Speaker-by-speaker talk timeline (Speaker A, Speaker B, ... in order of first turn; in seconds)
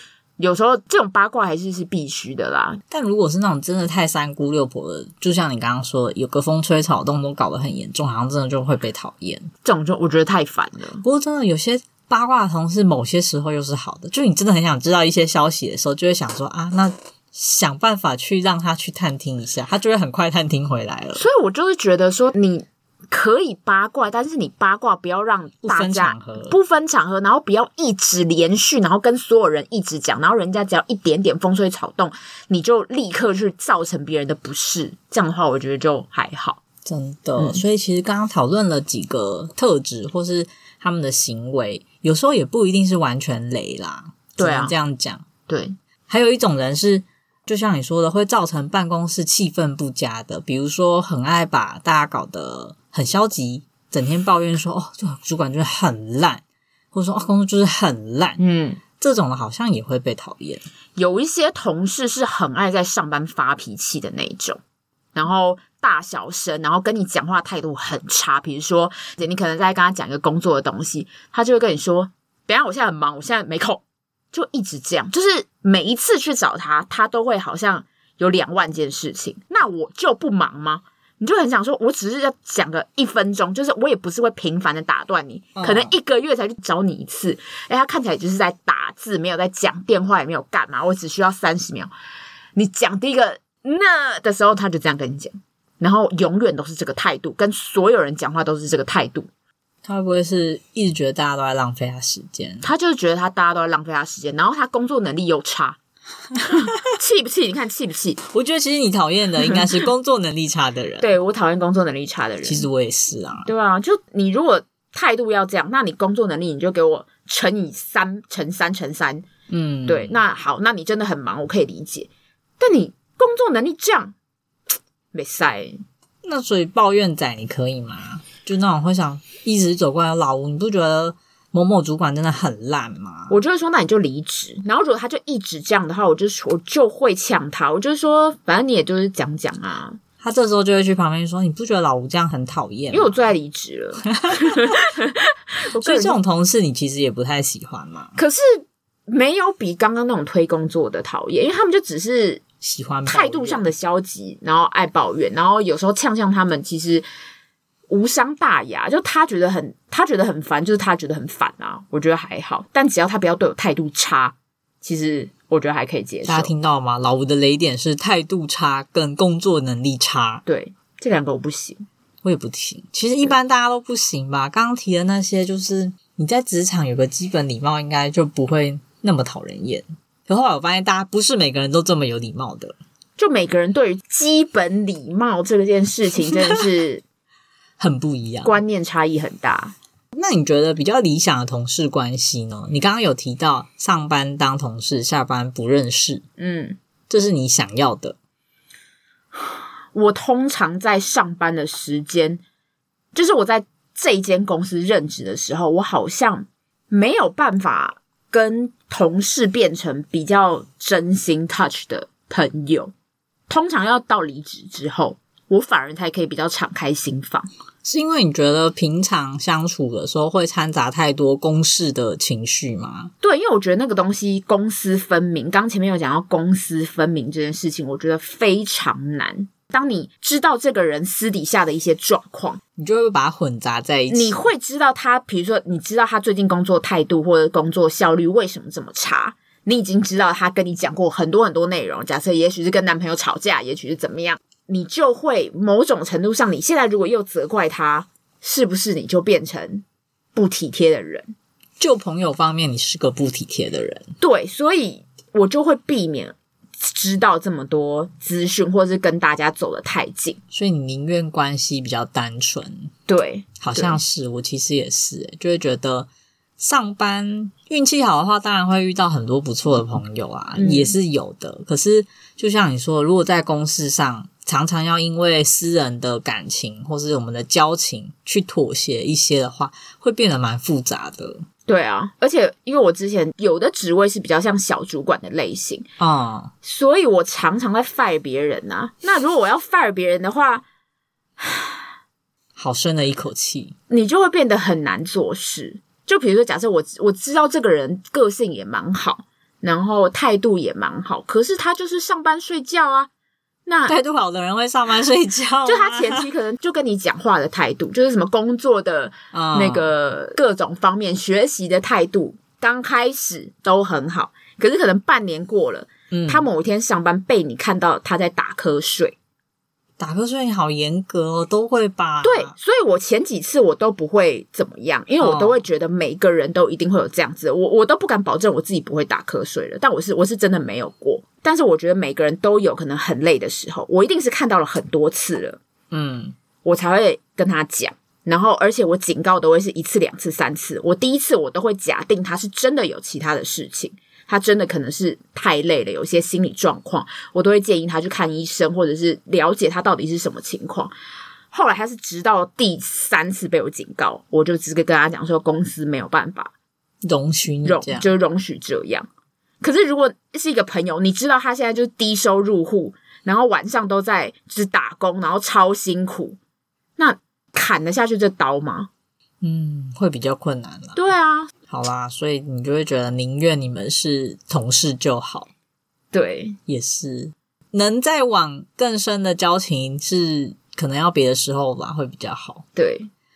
Speaker A: 0.4-2.8, 9.6-11.0, 21.1-36.6, 37.4-37.6, 44.4-44.7, 45.5-45.7, 58.4-58.8, 61.0-64.6, 65.1-91.9, 92.5-99.3, 102.6-105.8, 106.5-108.2, 111.0-112.7, 113.5-119.3, 119.8-124.1, 125.1-125.8, 133.3-140.0, 142.9-146.2, 148.2-152.4, 153.1-157.1, 157.9-166.5, 170.4-171.8, 183.2-187.0, 188.4-189.8, 196.4-196.8, 199.4-202.4, 203.1-212.9, 213.5-217.5, 223.2-232.6, 234.1-251.3, 254.2-260.4, 263.1-264.0, 270.6-270.9, 281.7-285.9, 286.6-290.6, 291.4-291.8, 293.9-303.1, 303.6-303.9, 305.6-319.1, 322.2-335.6, 336.6-350.9, 351.5-356.5, 357.6-359.1, 359.6-366.4, 367.0-368.9, 370.9-371.5, 376.1-376.6, 382.8-383.1
Speaker B: 2.9-9.5, 11.0-21.2, 25.6-26.6, 36.8-45.2, 46.1-58.4, 59.0-60.6, 85.5-85.9, 99.8-102.7, 108.3-111.1, 112.4-113.5, 119.5-120.2, 126.2-133.3, 140.2-143.3, 144.2-144.5, 145.8-148.2, 152.6-153.7, 166.2-170.4, 172.2-182.8, 187.8-188.6, 190.1-196.2, 197.1-198.2, 217.8-223.1, 232.8-234.4, 251.8-254.1, 260.5-262.9, 263.6-281.4, 286.0-286.5, 292.6-293.8, 303.9-306.2, 309.3-309.9, 316.1-316.5, 320.0-322.5, 325.2-325.6, 335.9-336.3, 357.0-358.1, 369.4-371.0, 371.7-375.5, 376.7-382.6